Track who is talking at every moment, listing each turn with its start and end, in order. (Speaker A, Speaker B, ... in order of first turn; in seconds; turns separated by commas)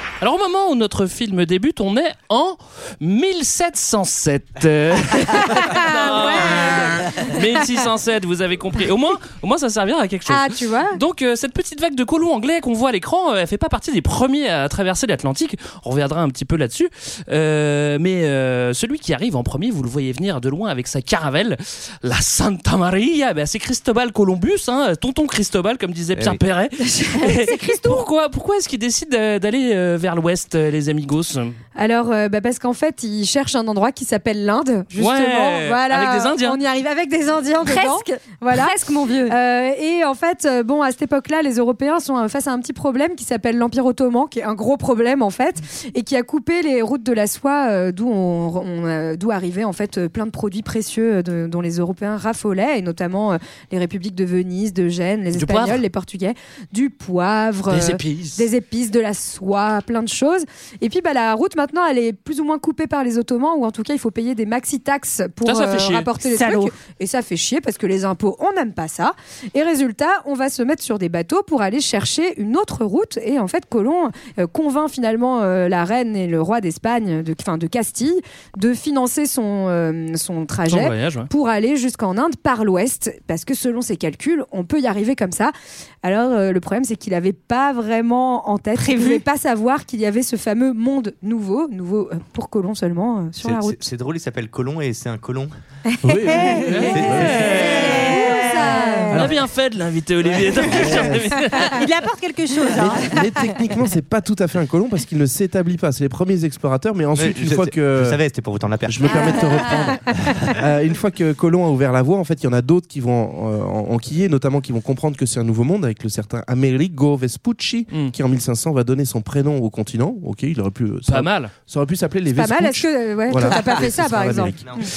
Speaker A: 0.2-31.6, Speaker B: 5.3-7.3, Speaker B: 10.3-11.0, Speaker C: 26.1-26.4, Speaker B: 26.8-28.0, Speaker B: 31.8-38.7, Speaker A: 35.0-36.6, Speaker D: 37.6-39.3, Speaker B: 39.3-93.8, Speaker A: 55.3-55.8, Speaker A: 57.7-58.4, Speaker A: 65.5-66.1, Speaker E: 66.2-66.7, Speaker A: 80.7-81.3, Speaker E: 88.8-89.2, Speaker C: 93.4-95.5, Speaker B: 96.0-97.0, Speaker F: 96.0-97.5, Speaker A: 96.7-98.1, Speaker C: 96.9-98.0, Speaker E: 97.2-99.0, Speaker B: 97.5-99.3, Speaker D: 98.0-99.1, Speaker A: 99.1-101.8, Speaker F: 100.4-101.4, Speaker E: 101.7-103.2, Speaker F: 102.7-108.2, Speaker C: 107.2-109.7, Speaker F: 108.9-124.7, Speaker D: 109.1-109.9, Speaker A: 121.1-121.5, Speaker B: 122.3-124.8, Speaker C: 123.7-124.9